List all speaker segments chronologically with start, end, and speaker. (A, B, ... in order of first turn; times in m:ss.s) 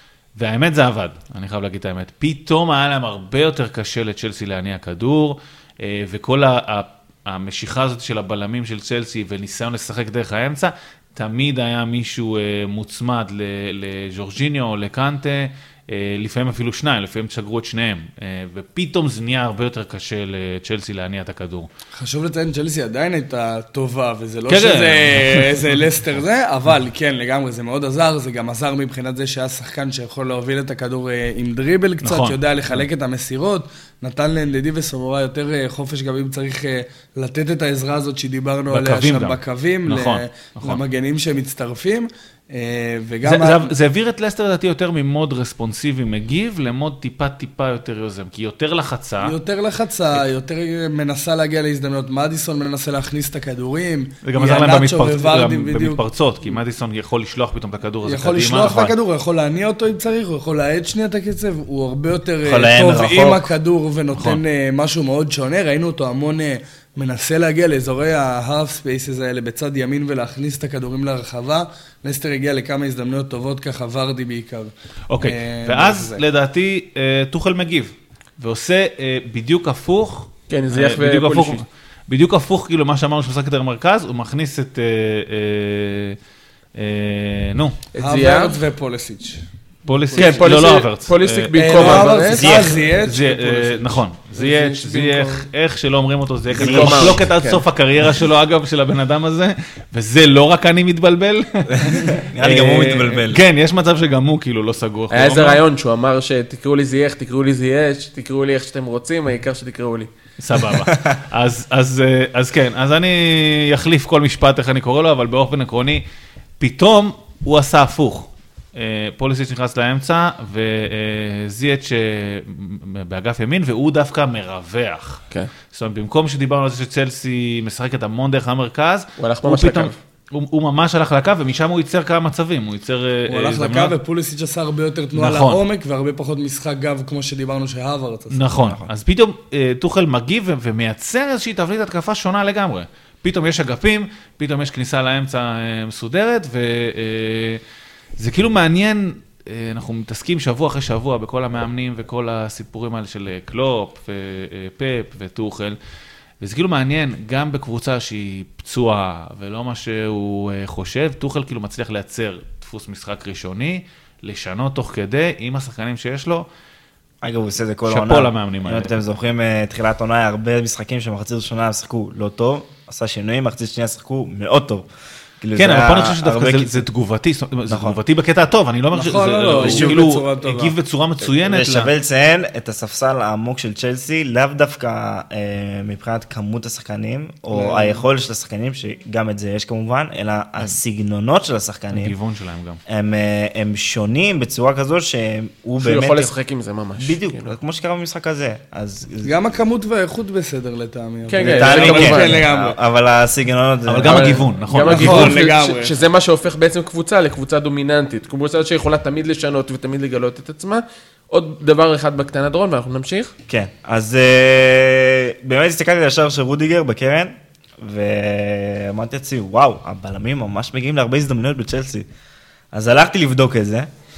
0:00.4-0:21.7 A
0:22.0-0:43.7 B
0:24.5-0:25.8 A
0:32.0-0:32.4 A
0:38.7-0:40.8 A
0:43.2-0:49.4 A
0:49.2-0:56.6 B
0:54.2-0:58.8 A
0:58.0-1:16.2 B
0:58.6-0:58.9 C
1:02.4-1:03.5 C
1:04.1-1:04.4 A
1:15.1-1:26.2 A
1:20.5-1:21.6 D
1:26.8-1:27.7 A
1:27.9-1:28.6 D
1:28.0-1:29.4 B
1:29.8-1:45.6 A
1:30.1-1:30.5 B
1:30.2-1:32.4 D
1:31.5-1:34.0 B
1:32.4-1:32.8 C
1:34.4-1:35.4 D
1:36.5-1:37.1 C
1:36.6-1:37.6 D
1:41.7-1:43.4 C
1:45.1-1:50.1 D
1:50.4-1:56.0 A
1:56.6-2:14.0 A
2:09.2-2:10.0 D
2:13.3-2:18.4 B
2:15.1-2:15.6 A
2:18.3-2:27.6 A
2:28.2-2:35.8 A
2:36.4-2:46.5 A
2:47.2-2:54.9 C
2:47.9-2:48.9 A
2:55.4-2:56.8 C
2:55.6-3:01.9 A
2:57.7-2:58.0 C
2:58.9-3:00.7 B
3:01.4-3:12.2 C
3:07.5-3:08.0 B
3:11.9-3:12.8 A
3:12.9-3:16.3 C
3:15.8-3:17.5 D
3:17.0-3:19.4 C
3:19.2-3:22.8 B
3:21.3-3:22.4 D
3:21.4-3:24.5 C
3:23.8-3:25.4 A
3:24.0-3:26.0 B
3:24.7-3:33.3 D
3:33.5-3:42.1 C
3:42.7-3:43.9 C